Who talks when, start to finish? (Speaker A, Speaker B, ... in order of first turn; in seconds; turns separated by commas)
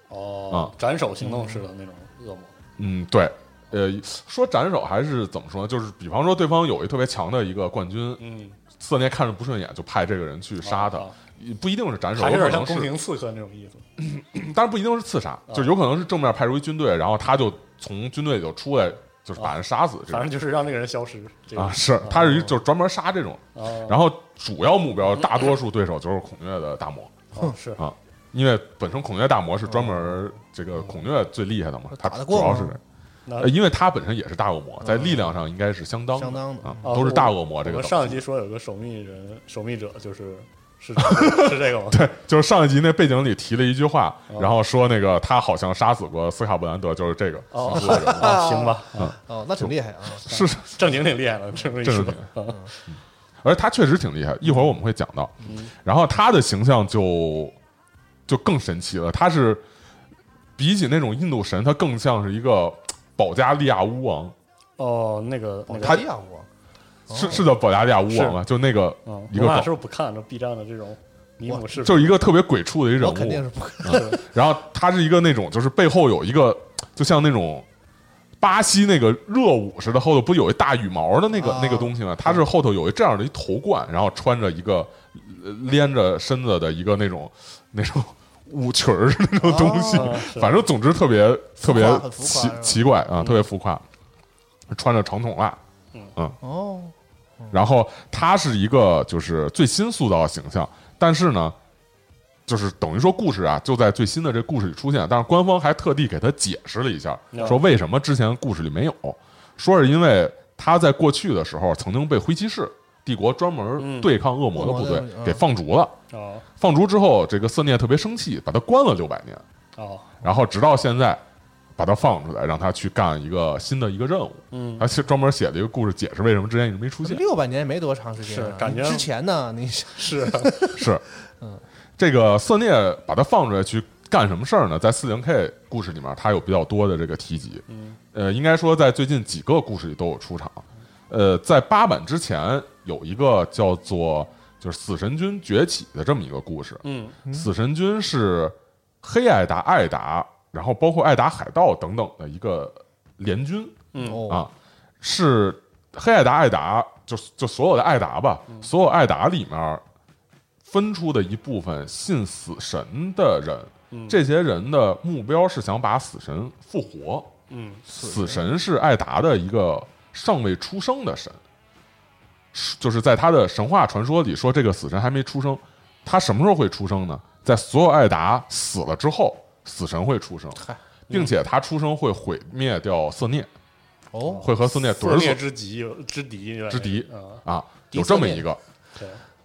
Speaker A: 0.1-2.5, Speaker B: 1.2-1.5, Speaker C: 2.8-8.2, Speaker A: 8.2-8.6, Speaker C: 8.8-12.9, Speaker A: 10.6-11.1, Speaker A: 12.1-13.8, Speaker C: 14.0-20.3, Speaker A: 20.1-22.5, Speaker C: 21.5-27.2, Speaker B: 22.1-22.5, Speaker A: 23.5-24.0, Speaker A: 27.3-27.8, Speaker C: 27.8-32.8, Speaker B: 29.8-30.2, Speaker B: 31.9-32.8, Speaker A: 33.2-33.5, Speaker C: 33.4-38.2, Speaker B: 34.8-35.4, Speaker B: 36.1-37.0, Speaker A: 36.8-42.1, Speaker C: 41.0-48.4, Speaker A: 44.3-44.5, Speaker A: 47.5-49.2, Speaker B: 47.7-50.2, Speaker C: 49.0-50.8, Speaker A: 50.2-52.7, Speaker C: 51.8-52.2, Speaker C: 52.9-57.5, Speaker A: 55.4-55.7, Speaker C: 58.3-59.6, Speaker C: 60.6-64.3, Speaker A: 64.8-66.0, Speaker B: 65.7-66.5, Speaker C: 65.8-66.1, Speaker B: 67.1-67.5, Speaker C: 67.1-69.7, Speaker A: 68.1-68.4, Speaker A: 69.0-72.1, Speaker C: 71.8-77.7, Speaker B: 73.0-74.2, Speaker A: 73.9-74.2, Speaker C: 78.4-93.8, Speaker B: 81.4-81.9, Speaker B: 89.4-90.2, Speaker A: 89.9-90.6, Speaker B: 91.6-92.9, Speaker A: 93.2-93.4, Speaker C: 94.7-95.6, Speaker B: 96.4-97.5, Speaker C: 97.5-101.5, Speaker C: 102.5-116.0, Speaker A: 107.3-107.6, Speaker A: 113.8-114.1, Speaker B: 114.5-115.4, Speaker A: 116.1-116.5, Speaker C: 116.6-119.4, Speaker A: 119.8-120.2, Speaker C: 120.2-121.2, Speaker C: 121.8-127.2, Speaker A: 124.5-124.9, Speaker B: 127.0-130.9, Speaker A: 128.2-129.1, Speaker A: 129.9-130.6, Speaker C: 130.7-131.0, Speaker C: 132.0-159.8, Speaker A: 137.7-138.0, Speaker A: 146.8-147.2, Speaker B: 147.2-147.5, Speaker A: 153.9-154.2, Speaker B: 154.0-154.5, Speaker C: 160.6-167.3, Speaker A: 163.9-164.2, Speaker A: 167.5-167.8, Speaker B: 167.9-168.5, Speaker C: 167.9-171.4, Speaker C: 172.5-183.5, Speaker B: 184.1-184.4, Speaker A: 184.2-187.4, Speaker C: 184.4-185.4, Speaker C: 186.7-188.6, Speaker B: 187.9-188.5, Speaker A: 188.9-189.2